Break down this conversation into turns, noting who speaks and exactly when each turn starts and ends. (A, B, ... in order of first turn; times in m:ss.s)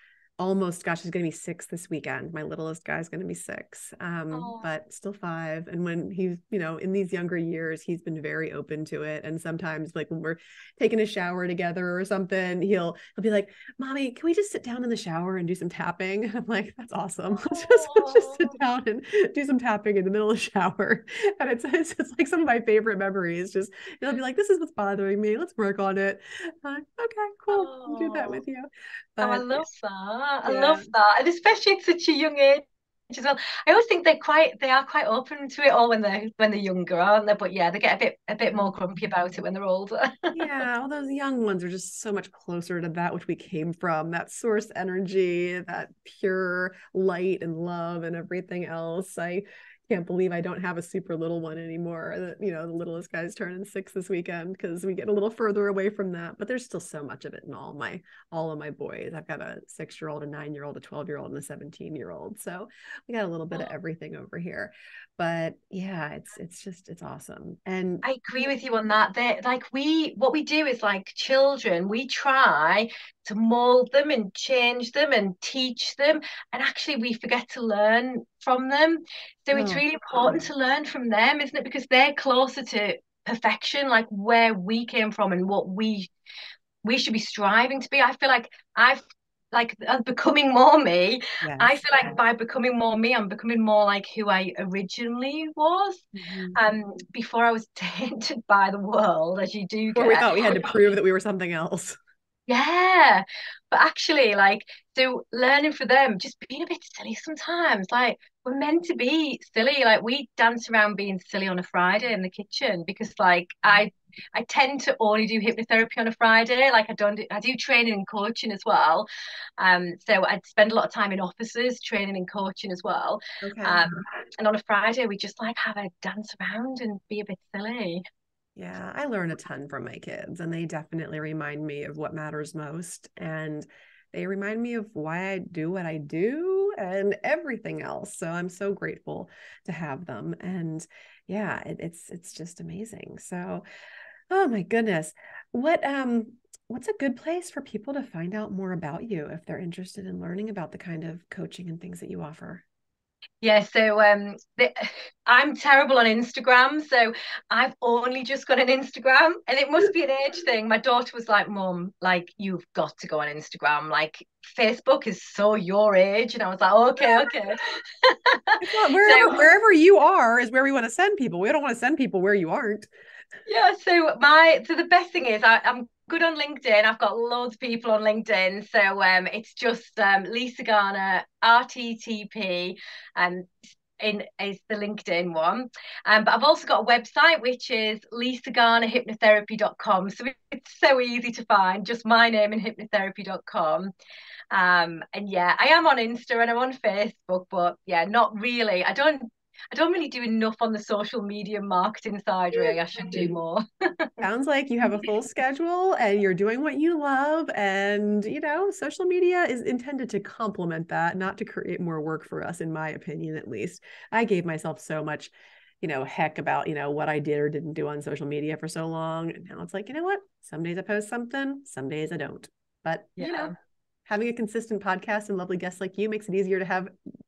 0:00.4-0:29.6 A
0:04.3-0:04.7 B
0:17.4-0:18.6 B
0:27.5-0:28.4 B
0:29.2-0:40.5 B
0:30.4-0:30.9 A
0:40.4-1:08.0 A
1:08.0-1:26.1 B
1:19.5-1:19.8 A
1:26.8-1:40.4 B
1:31.4-1:31.8 A
1:36.1-1:36.6 A
1:39.9-1:42.0 A
1:42.5-1:59.1 B
1:59.6-2:08.0 B
2:03.4-2:03.8 A
2:08.6-2:23.6 A
2:24.3-2:32.6 A
2:33.4-2:49.4 B
2:47.0-2:47.3 A
2:48.6-2:52.9 A
2:53.5-3:13.9 B
3:14.5-3:24.1 B
3:24.2-3:43.5 A
3:43.2-3:43.5 B
3:44.1-3:46.9 A